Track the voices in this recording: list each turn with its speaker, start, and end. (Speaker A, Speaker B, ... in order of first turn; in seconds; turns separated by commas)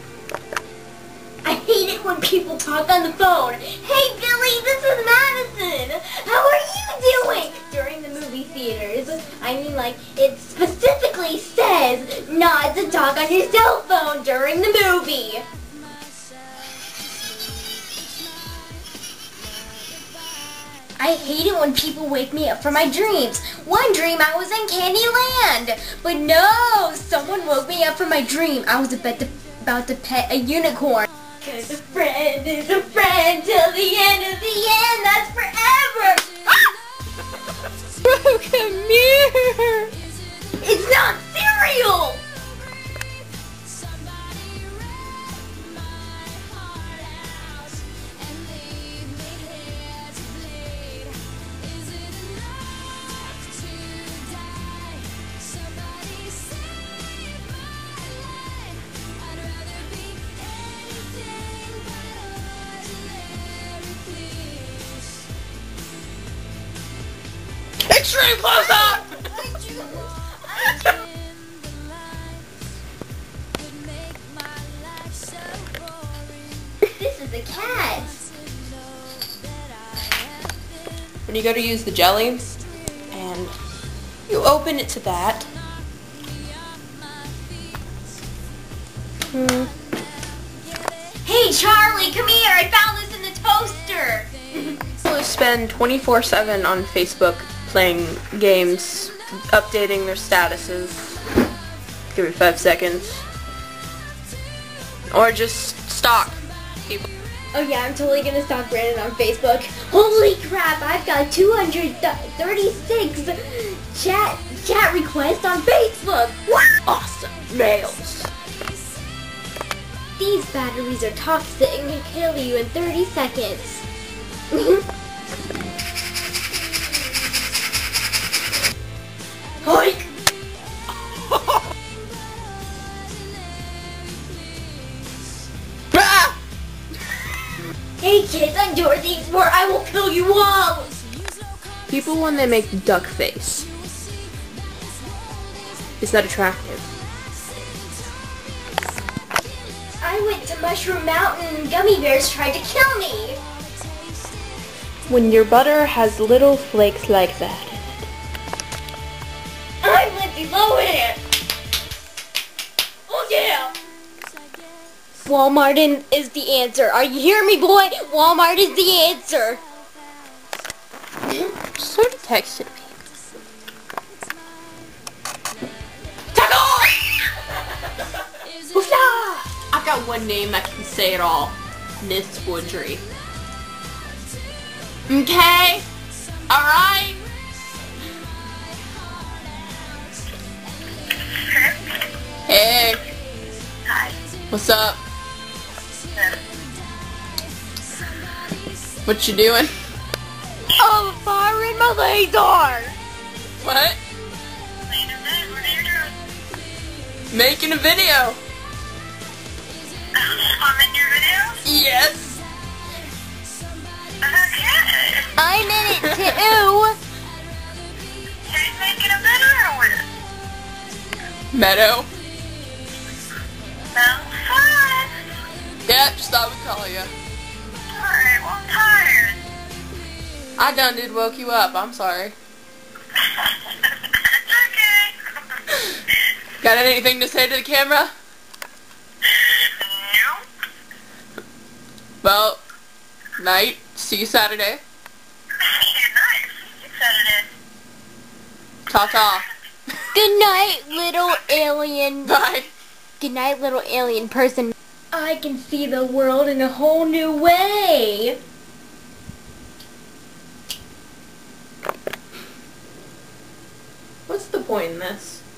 Speaker A: 1.4-15.4, Speaker A: 21.0-36.3, Speaker B: 38.0-39.9, Speaker A: 40.6-42.2, Speaker B: 67.9-69.0, Speaker A: 68.5-71.0, Speaker A: 76.8-78.2, Speaker B: 81.3-82.5, Speaker B: 83.1-83.5, Speaker B: 84.3-85.5, Speaker B: 89.3-89.7, Speaker A: 91.2-94.7, Speaker B: 95.0-101.2, Speaker B: 102.1-103.2, Speaker B: 105.1-107.1, Speaker A: 107.5-116.7, Speaker B: 116.8-118.3, Speaker A: 120.2-123.8, Speaker A: 124.5-124.8, Speaker A: 129.6-130.1, Speaker B: 135.9-136.3, Speaker A: 138.0-140.9, Speaker B: 141.9-143.7, Speaker B: 146.0-146.8, Speaker A: 150.0-153.4, Speaker B: 155.1-157.8, Speaker A: 159.8-161.2, Speaker A: 163.1-163.7, Speaker A: 165.2-169.6, Speaker B: 171.6-172.9, Speaker B: 176.3-176.9, Speaker A: 178.7-179.5, Speaker B: 179.5-183.0, Speaker B: 185.1-185.8, Speaker B: 186.5-187.2, Speaker C: 191.3-191.8, Speaker B: 192.5-193.0, Speaker C: 193.9-194.1, Speaker B: 194.5-195.0, Speaker B: 199.1-199.7, Speaker A: 200.8-202.9, Speaker B: 203.6-204.0, Speaker C: 204.8-206.1, Speaker B: 207.3-208.4, Speaker C: 210.1-211.6, Speaker B: 211.6-212.4, Speaker C: 214.2-215.3, Speaker A: 215.3-217.0, Speaker B: 215.8-216.2, Speaker C: 218.4-220.0, Speaker B: 221.5-222.1, Speaker C: 223.9-225.1, Speaker B: 225.8-227.1, Speaker C: 227.9-229.4, Speaker B: 230.6-232.3, Speaker C: 234.2-235.2, Speaker B: 236.6-238.1, Speaker C: 239.4-240.4, Speaker B: 242.2-242.6, Speaker B: 243.4-244.8, Speaker C: 245.6-247.5, Speaker B: 248.9-249.4, Speaker A: 250.1-252.3, Speaker B: 252.2-252.7, Speaker A: 253.2-258.4, Speaker B: 264.3-265.4